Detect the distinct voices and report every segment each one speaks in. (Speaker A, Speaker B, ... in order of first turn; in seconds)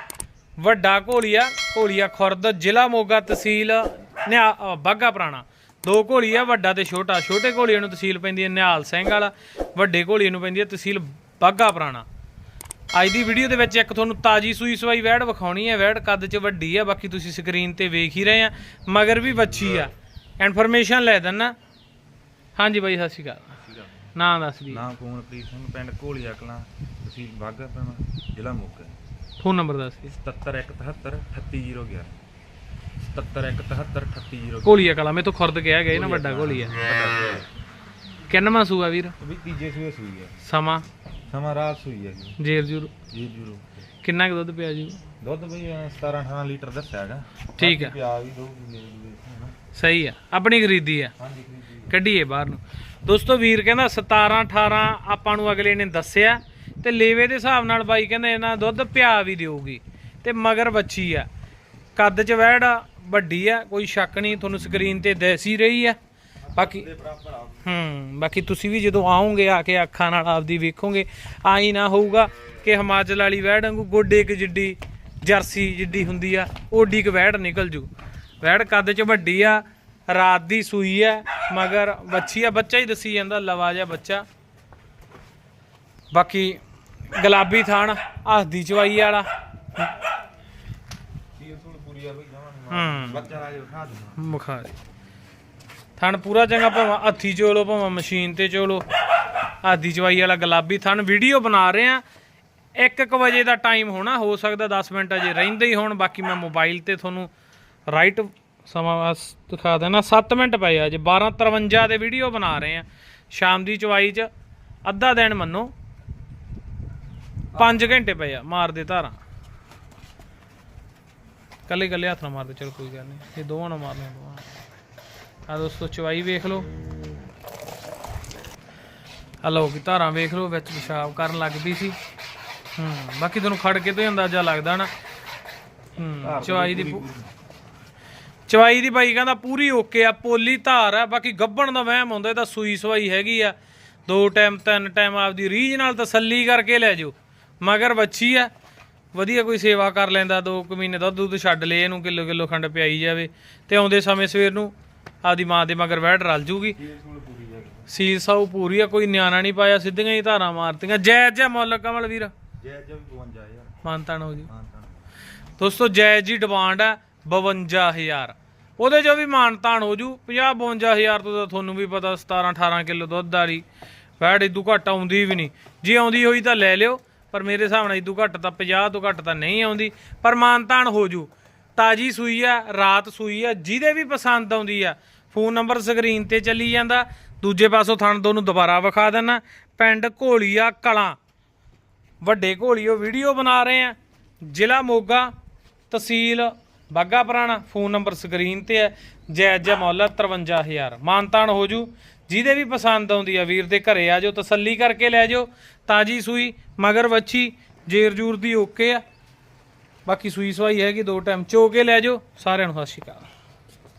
Speaker A: 0.6-12.1, 12.9-21.6, 22.6-23.6, 24.1-24.8, 29.4-30.1, 34.6-36.8, 38.3-39.1, 40.4-40.9, 42.4-42.9, 44.0-45.0, 47.6-48.0, 49.7-51.1, 51.9-61.3, 62.0-66.0, 66.6-66.9, 67.6-77.9, 78.4-84.2, 86.1-86.6, 87.1-89.3, 92.7-93.3, 94.2-94.8, 96.0-98.9, 99.6-102.0, 102.8-107.3, 107.9-114.3, 114.8-115.7, 117.5-119.2, 121.7-124.5, 125.5-126.7, 129.4-132.0, 132.8-134.9, 136.0-137.1, 138.5-143.6, 144.1-148.5, 149.1-154.7, 155.2-156.8, 157.9-162.3, 163.8-164.5, 165.6-173.7, 174.2-191.2, 192.2-195.3, 195.9-209.0, 210.1-213.3
Speaker B: 24.7-29.0, 30.1-32.2, 33.0-34.8, 35.9-37.5, 39.2-40.4, 41.3-42.4, 43.1-43.7, 45.2-49.5, 51.2-52.0, 66.5-67.7, 91.4-94.2, 117.5-117.8, 136.2-137.3, 156.8-157.9, 162.6-163.8, 164.5-165.0